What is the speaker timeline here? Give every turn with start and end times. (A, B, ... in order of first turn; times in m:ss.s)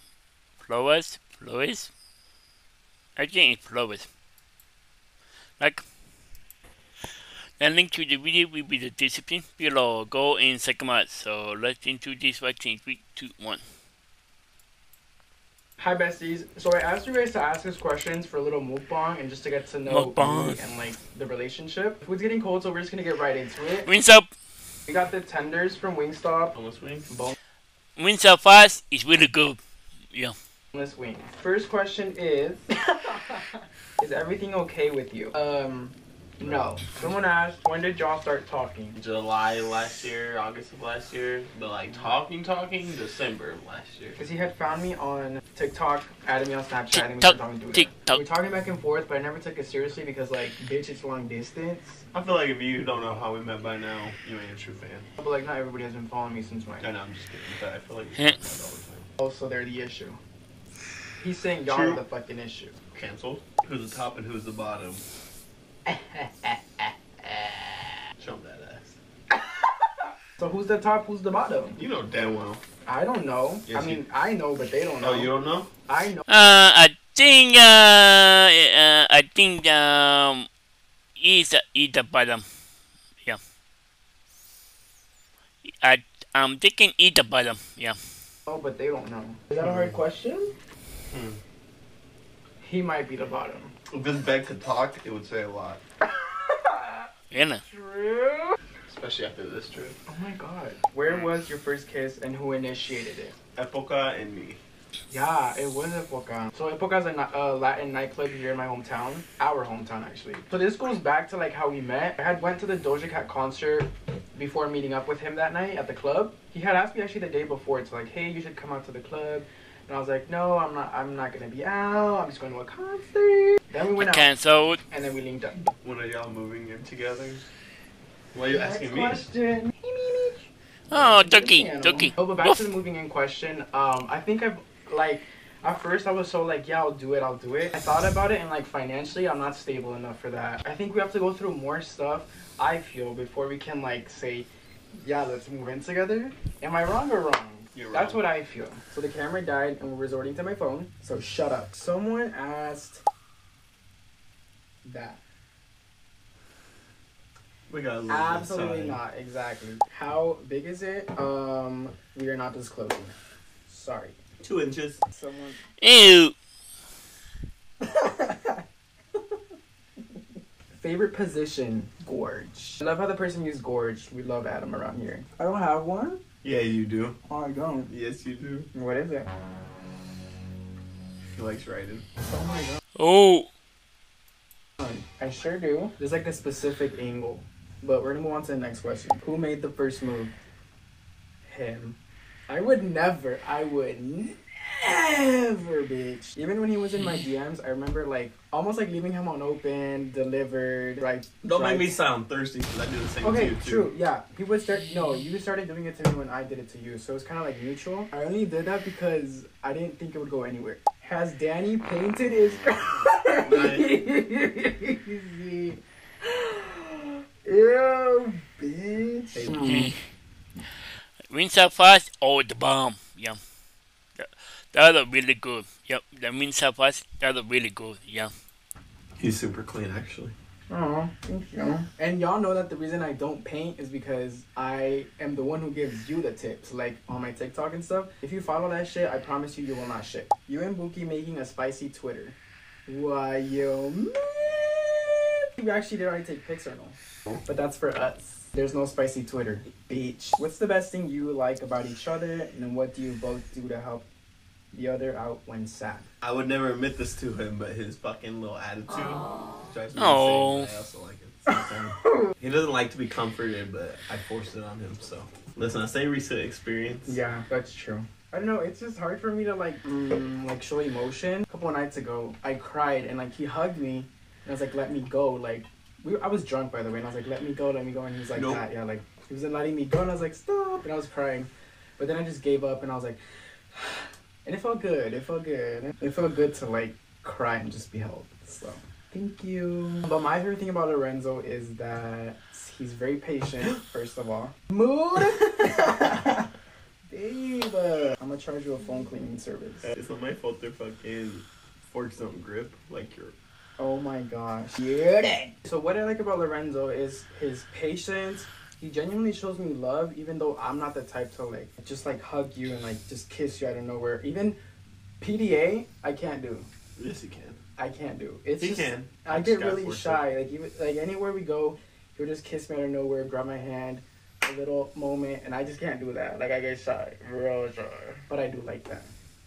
0:00.6-0:01.9 A
0:03.2-0:04.0 A
0:05.6-0:05.9 A
0:07.6-0:13.6 A
0:15.8-0:23.9 B
0:19.9-0:20.6 A
0:23.8-0:24.3 A
0:24.9-0:26.6 B
0:26.5-0:27.1 C
0:27.1-0:27.3 B
0:28.0-0:29.6 A
0:30.7-0:39.0 B
0:39.0-0:44.2 C
0:44.2-0:52.0 B
0:46.9-0:48.2 A
0:52.1-0:55.1 C
0:55.2-0:56.9 B
0:56.8-0:59.1 C
0:59.2-1:00.2 B
1:01.2-1:02.8 B
1:01.6-1:02.0 C
1:02.9-1:05.0 C
1:05.9-1:07.9 B
1:08.2-1:09.0 C
1:09.3-1:11.8 B
1:11.8-1:12.6 C
1:12.9-1:15.3 B
1:13.7-1:14.0 C
1:15.0-1:15.7 C
1:15.9-1:16.2 B
1:16.3-1:20.5 A
1:21.2-1:22.4 A
1:25.6-1:28.0 A
1:28.5-1:30.5 B
1:29.6-1:30.0 C
1:31.1-1:31.4 C
1:32.6-1:33.7 B
1:33.9-1:35.8 C
1:36.1-1:37.1 B
1:37.3-1:37.6 A
1:37.6-1:38.6 B
1:38.9-1:40.0 C
1:40.1-1:43.3 B
1:43.6-1:44.6 C
1:45.1-2:04.3 B
2:04.0-2:04.8 A
2:04.9-2:05.7 B
2:05.8-2:07.5 C
2:08.3-2:09.2 C
2:08.5-2:33.0 B
2:10.9-2:12.6 A
2:27.8-2:28.2 C
2:34.8-2:35.2 B
2:37.7-2:39.0 C
2:38.1-2:43.2 B
2:43.7-2:44.2 B
2:44.4-2:45.0 C
2:45.1-2:45.6 B
2:45.8-2:46.3 A
2:47.8-2:48.6 B
2:50.8-2:56.2 B
2:56.4-2:57.2 C
2:57.3-2:57.9 B
2:57.9-2:58.7 C
2:58.7-2:59.3 B
3:01.3-3:02.1 C
3:02.2-3:02.8 B
3:03.0-3:03.5 A
3:04.8-3:10.3 B
3:11.4-3:12.0 B
3:12.5-3:22.0 B
3:21.4-3:23.9 C
3:23.2-3:39.9 B
3:33.4-3:33.9 C
3:39.3-3:39.6 C
3:39.6-3:39.9 A
3:41.3-3:43.4 A
3:44.2-3:48.3 A
3:49.2-3:50.3 C
3:50.7-4:02.4 B
4:02.9-4:14.0 B
4:14.7-4:16.1 B
4:16.2-4:27.2 C
4:20.0-4:20.7 A
4:22.0-4:22.3 B
4:27.0-4:43.2 B
4:38.3-4:38.6 C
4:43.7-4:56.5 B
4:57.1-4:59.9 B
4:59.8-5:03.3 C
5:03.8-5:14.6 B
5:15.2-5:16.7 B
5:17.0-5:17.6 C
5:17.8-5:29.1 B
5:18.6-5:20.2 C